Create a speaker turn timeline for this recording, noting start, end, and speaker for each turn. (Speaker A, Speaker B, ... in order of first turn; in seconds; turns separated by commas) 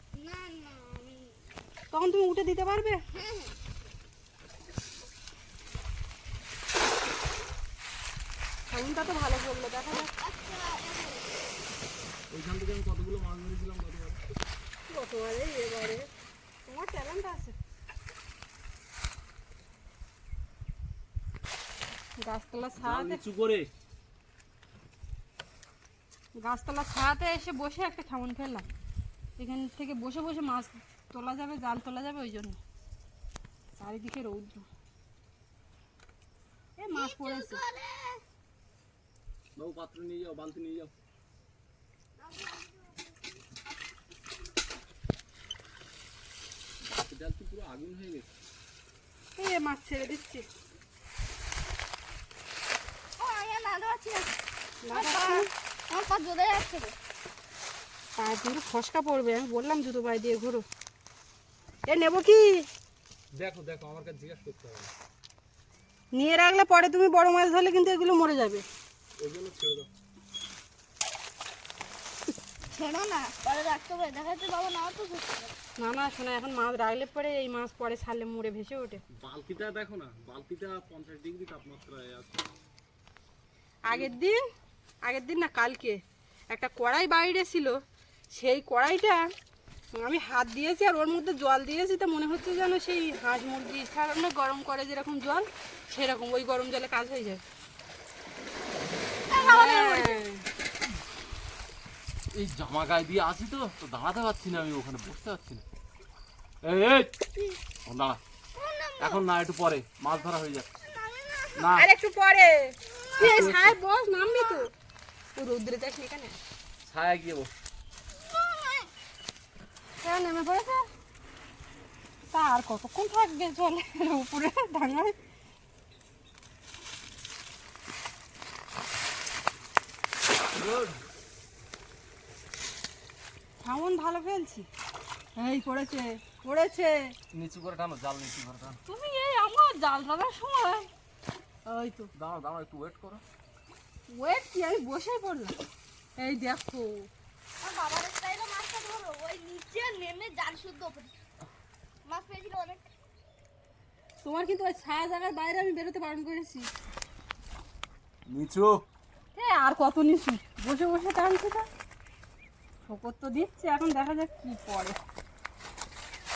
Speaker A: 0.1-1.4, Speaker B: 1.9-3.0, Speaker A: 3.1-3.6, Speaker B: 8.7-10.1, Speaker A: 10.0-11.5, Speaker C: 12.3-14.2, Speaker B: 14.9-16.1, Speaker B: 16.7-17.6, Speaker B: 22.2-23.2, Speaker C: 22.8-23.7, Speaker B: 26.4-28.7, Speaker B: 29.4-32.6, Speaker B: 33.8-34.6, Speaker B: 36.8-37.6, Speaker A: 36.9-38.2, Speaker C: 39.6-40.9, Speaker A: 42.2-43.2, Speaker C: 46.8-48.3, Speaker B: 49.4-50.5, Speaker A: 53.2-54.4, Speaker B: 54.9-55.5, Speaker A: 54.9-57.0, Speaker B: 58.2-60.6, Speaker B: 61.9-62.6, Speaker C: 63.4-64.9, Speaker B: 66.1-68.6, Speaker C: 69.2-69.9, Speaker A: 72.7-75.5, Speaker B: 75.8-79.0, Speaker C: 79.2-82.4, Speaker B: 83.9-84.4, Speaker B: 85.1-86.0, Speaker B: 86.5-87.8, Speaker B: 88.3-89.2, Speaker B: 90.0-97.4, Speaker A: 99.3-100.2, Speaker B: 99.4-100.4, Speaker C: 102.3-105.6, Speaker C: 106.6-107.2, Speaker C: 107.8-108.2, Speaker A: 108.5-109.2, Speaker C: 109.0-110.7, Speaker A: 110.8-111.8, Speaker C: 111.6-111.9, Speaker B: 111.8-114.7, Speaker A: 112.9-113.6, Speaker C: 113.2-113.8, Speaker A: 114.2-114.7, Speaker B: 115.4-116.4, Speaker C: 116.8-117.5, Speaker A: 118.1-118.9, Speaker B: 120.0-120.9, Speaker B: 122.3-125.1, Speaker C: 130.5-131.0, Speaker B: 133.6-134.7, Speaker B: 135.4-137.1, Speaker C: 137.3-138.8, Speaker B: 138.9-140.9, Speaker B: 141.7-142.1, Speaker C: 142.1-143.2, Speaker B: 144.1-145.6, Speaker B: 146.2-147.1, Speaker A: 147.6-151.1, Speaker A: 152.1-152.8, Speaker B: 154.2-156.7, Speaker C: 158.3-158.8, Speaker B: 159.3-161.7, Speaker B: 162.9-165.0